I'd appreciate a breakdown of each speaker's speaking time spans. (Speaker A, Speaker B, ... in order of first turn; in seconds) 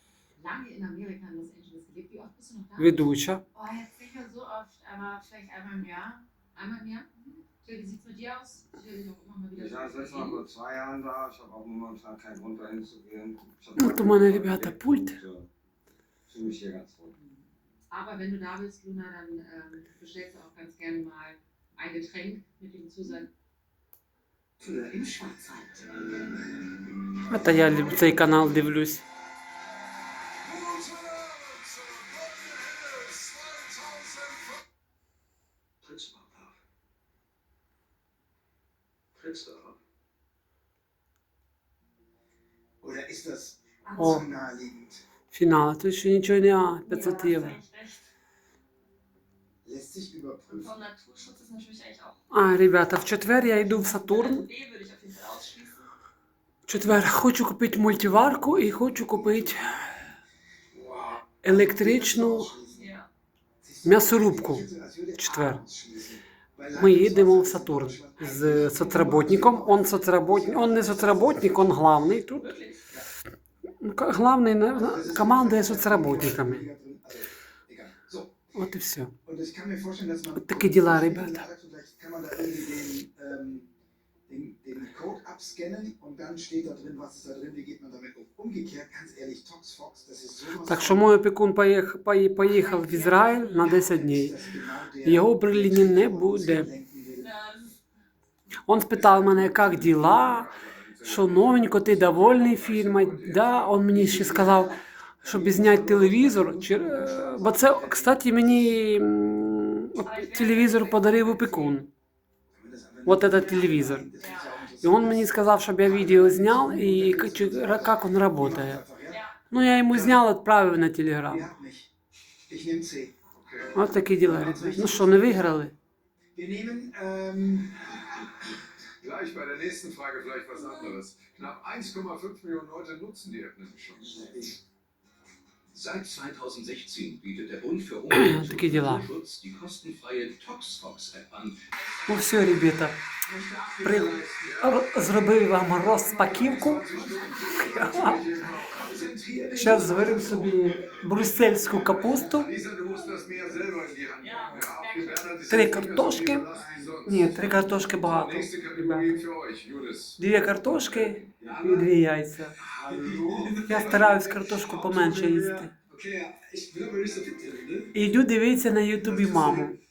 Speaker A: 0.3-10.5, 17.9-23.3, 92.4-93.9
Speaker B: 2.8-3.4, 13.8-15.2, 27.3-29.0, 45.3-47.6, 52.3-54.5, 56.6-60.1, 61.4-62.5, 63.8-65.6, 66.7-72.5, 73.8-76.7, 78.5-79.1, 80.3-81.5, 90.6-94.4, 95.0-96.7, 98.7-111.9, 113.0-114.1, 114.7-118.8, 119.4-121.5, 123.7-125.7, 132.3-133.5, 138.1-139.1, 142.1-143.0, 143.8-148.9, 149.5-153.2, 154.3-162.7, 163.3-165.7, 167.9-169.8
Speaker C: 9.5-15.5, 16.3-17.1
Speaker D: 30.5-33.9, 35.8-36.5, 39.1-39.8, 135.7-141.6, 149.1-150.0
Speaker E: 42.8-45.0, 49.6-50.8, 60.7-62.9, 63.6-71.6, 74.7-78.3, 79.2-83.7, 84.3-91.1, 94.0-97.3, 105.3-106.3, 107.2-107.6, 112.5-119.2, 121.3-121.9, 122.5-123.2, 124.2-125.3, 126.3-128.0, 134.1-134.6, 143.3-144.3, 146.5-148.2, 148.9-150.5, 152.2-152.9, 153.4-153.7, 156.5-156.9, 162.7-164.2, 164.8-167.9
Speaker F: 46.9-48.0, 50.5-52.2, 53.7-55.9, 62.7-63.1, 72.4-72.8, 93.0-93.4, 97.2-97.7, 109.9-111.7, 114.2-114.5, 119.1-119.3, 154.2-155.6
Speaker G: 129.0-132.7, 133.5-133.9, 153.5-154.1